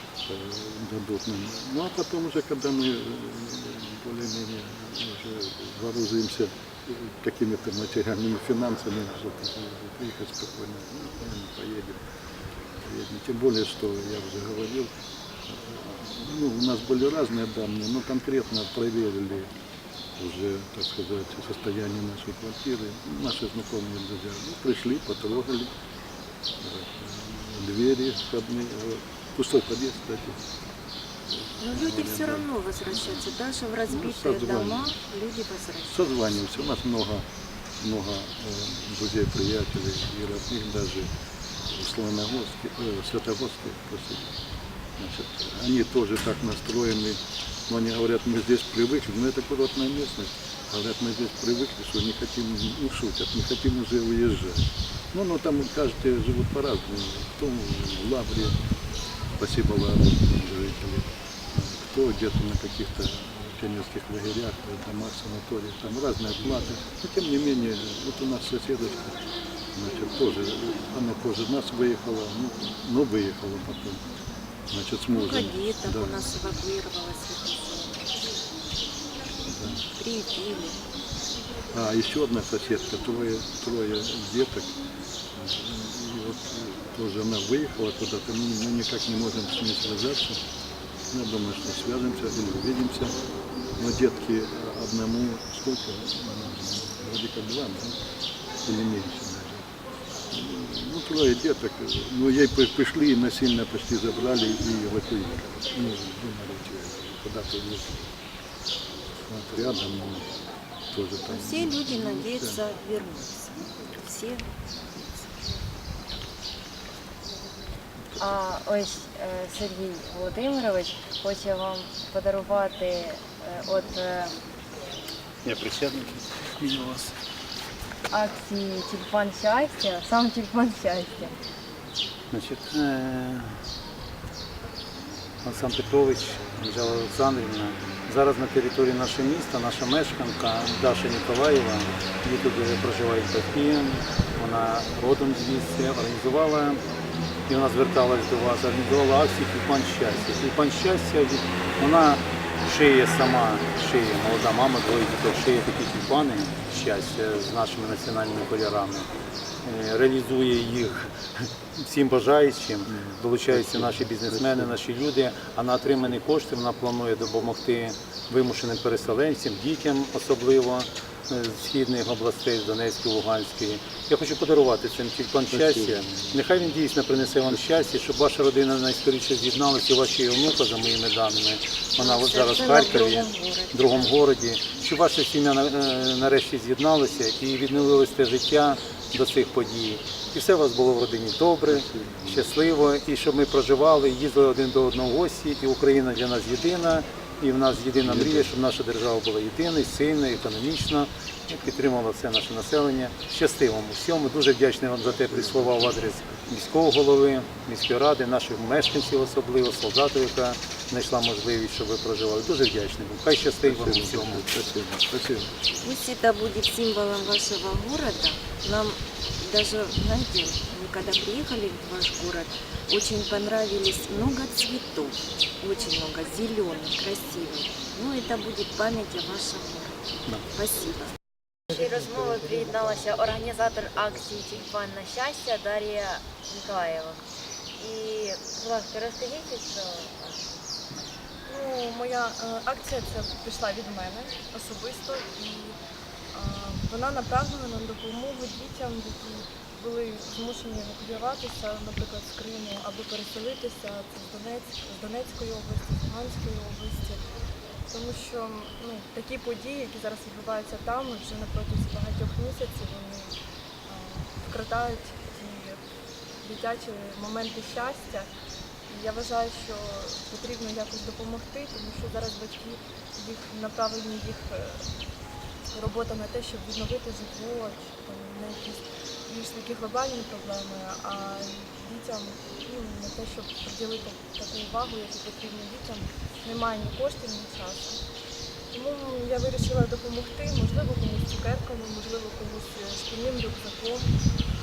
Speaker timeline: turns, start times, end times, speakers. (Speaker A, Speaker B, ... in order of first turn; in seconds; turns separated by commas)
Speaker A: 0.3-12.0, Speaker A: 12.8-14.9, Speaker A: 15.5-19.5, Speaker A: 20.2-25.7, Speaker A: 26.6-30.4, Speaker A: 31.3-33.2, Speaker B: 31.6-36.0, Speaker A: 33.9-34.9, Speaker A: 35.9-37.2, Speaker A: 37.8-41.1, Speaker A: 41.7-44.3, Speaker A: 45.0-58.6, Speaker A: 59.4-74.0, Speaker A: 74.7-76.2, Speaker B: 75.1-78.1, Speaker A: 79.5-79.8, Speaker B: 79.9-80.8, Speaker A: 81.7-84.8, Speaker A: 85.3-90.4, Speaker A: 91.1-93.1, Speaker A: 93.8-98.0, Speaker A: 98.7-99.7, Speaker A: 100.3-108.1, Speaker A: 109.3-110.3, Speaker A: 110.9-112.6, Speaker B: 111.3-115.4, Speaker C: 118.2-124.3, Speaker D: 125.4-127.2, Speaker C: 128.1-131.3, Speaker D: 132.3-133.6, Speaker D: 135.4-146.8, Speaker D: 147.5-159.1, Speaker D: 159.6-214.5, Speaker A: 162.9-164.8, Speaker A: 175.5-177.6, Speaker B: 182.0-184.2, Speaker A: 191.7-192.6, Speaker A: 198.0-198.5, Speaker A: 205.1-206.5, Speaker A: 213.6-215.9, Speaker B: 215.8-231.1, Speaker C: 231.7-237.2, Speaker C: 237.8-240.6, Speaker E: 241.5-245.8, Speaker E: 246.3-257.2, Speaker E: 257.9-263.3, Speaker E: 263.9-265.8, Speaker E: 266.4-268.3, Speaker E: 268.9-274.9, Speaker E: 275.7-288.0, Speaker E: 288.7-294.1